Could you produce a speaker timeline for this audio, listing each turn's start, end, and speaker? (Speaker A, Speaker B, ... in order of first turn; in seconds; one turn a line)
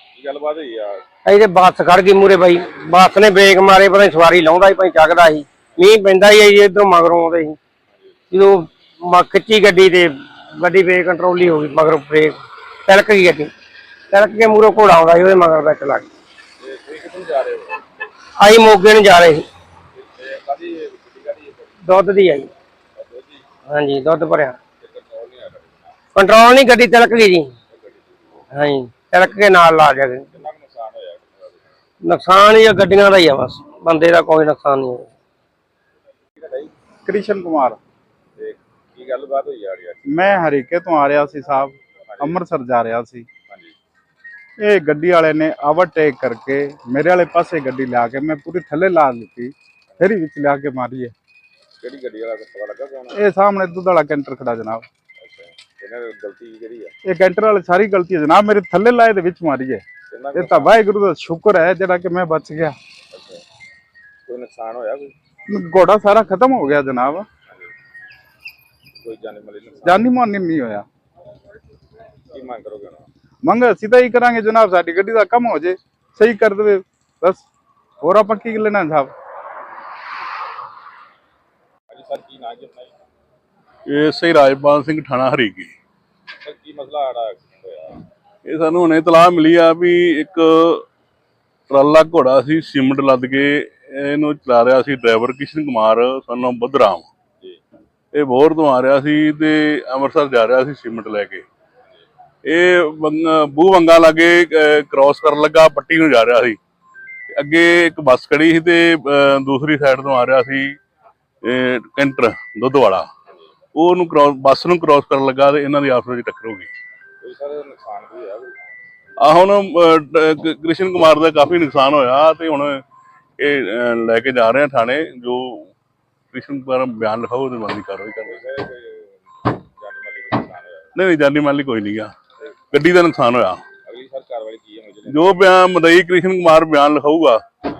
Speaker A: 0.1-1.0
Speaker B: 1.3-7.6
Speaker B: 8.3-13.5
Speaker B: 14.1-16.1
Speaker A: 16.6-17.8
Speaker B: 18.4-19.5
Speaker A: 19.9-21.8
Speaker B: 21.8-22.5
Speaker A: 23.0-23.4
Speaker B: 23.7-24.6
Speaker A: 24.8-26.0
Speaker B: 26.1-27.5
Speaker A: 27.7-28.1
Speaker B: 28.5-30.2
Speaker A: 30.3-31.6
Speaker B: 32.0-35.1
Speaker A: 36.4-36.7
Speaker C: 37.1-37.8
Speaker A: 38.4-40.5
Speaker C: 40.1-43.3
Speaker A: 42.0-42.4
Speaker A: 43.5-43.8
Speaker C: 44.6-51.1
Speaker A: 51.8-53.2
Speaker C: 53.1-54.9
Speaker A: 55.2-56.9
Speaker C: 57.0-59.8
Speaker A: 60.1-60.8
Speaker C: 60.4-62.8
Speaker A: 63.1-63.4
Speaker A: 64.3-65.1
Speaker C: 65.5-67.3
Speaker A: 69.0-70.1
Speaker C: 69.8-70.8
Speaker A: 72.3-73.1
Speaker C: 73.4-77.5
Speaker C: 78.0-79.1
Speaker A: 81.9-82.9
Speaker D: 83.9-85.7
Speaker A: 86.4-88.0
Speaker D: 88.5-90.9
Speaker D: 91.7-97.1
Speaker D: 98.1-101.5
Speaker D: 102.5-106.6
Speaker D: 107.4-110.8
Speaker D: 111.4-113.1
Speaker D: 113.8-116.7
Speaker A: 117.2-118.6
Speaker D: 119.2-122.8
Speaker D: 123.4-125.7
Speaker D: 126.3-128.4
Speaker A: 128.3-130.9
Speaker D: 130.9-132.1
Speaker D: 132.7-133.7
Speaker A: 133.8-135.4
Speaker D: 135.1-137.4